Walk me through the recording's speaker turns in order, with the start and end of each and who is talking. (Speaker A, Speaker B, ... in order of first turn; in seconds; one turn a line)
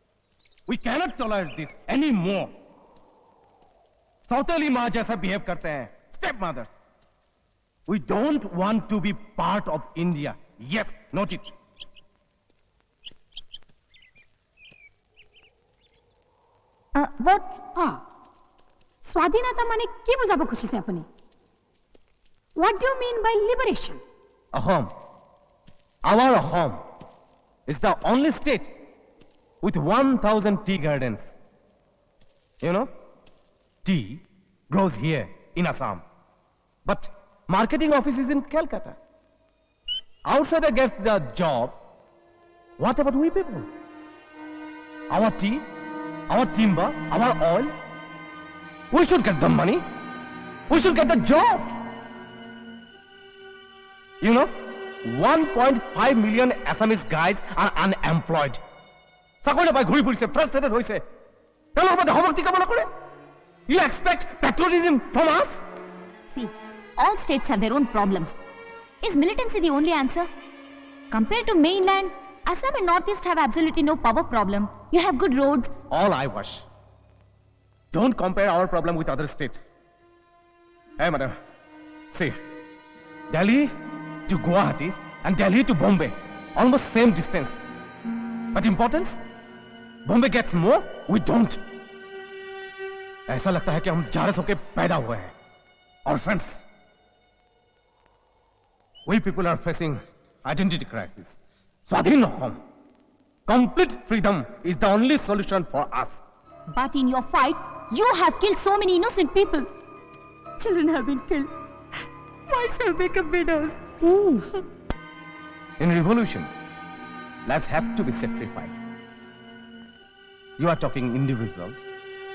Speaker A: 0.7-2.5
Speaker A: 4.2-6.8
Speaker A: 7.9-11.5
Speaker B: 16.9-17.5
Speaker C: 19.0-21.0
Speaker C: 22.6-24.0
Speaker A: 24.5-24.9
Speaker A: 26.0-26.8
Speaker A: 27.7-28.7
Speaker A: 29.6-31.3
Speaker A: 32.6-32.9
Speaker A: 33.8-36.0
Speaker A: 36.8-39.0
Speaker A: 40.3-41.8
Speaker A: 42.8-43.7
Speaker A: 45.1-45.6
Speaker A: 46.3-47.7
Speaker A: 48.9-49.8
Speaker A: 50.7-51.8
Speaker A: 54.2-54.5
Speaker A: 55.0-58.6
Speaker A: 59.4-61.0
Speaker A: 61.8-62.9
Speaker A: 63.7-65.6
Speaker B: 66.3-68.3
Speaker B: 69.0-70.3
Speaker B: 71.1-75.7
Speaker A: 75.9-76.7
Speaker A: 77.9-79.6
Speaker A: 81.0-81.3
Speaker A: 82.1-82.3
Speaker A: 83.3-83.7
Speaker A: 84.3-87.6
Speaker A: 88.5-89.2
Speaker A: 90.0-91.6
Speaker A: 93.3-95.3
Speaker A: 96.0-96.6
Speaker A: 99.1-102.6
Speaker A: 103.5-106.2
Speaker B: 106.7-109.7
Speaker B: 110.6-111.5
Speaker B: 112.5-113.7
Speaker A: 115.8-116.5
Speaker A: 117.5-118.7
Speaker A: 120.6-121.9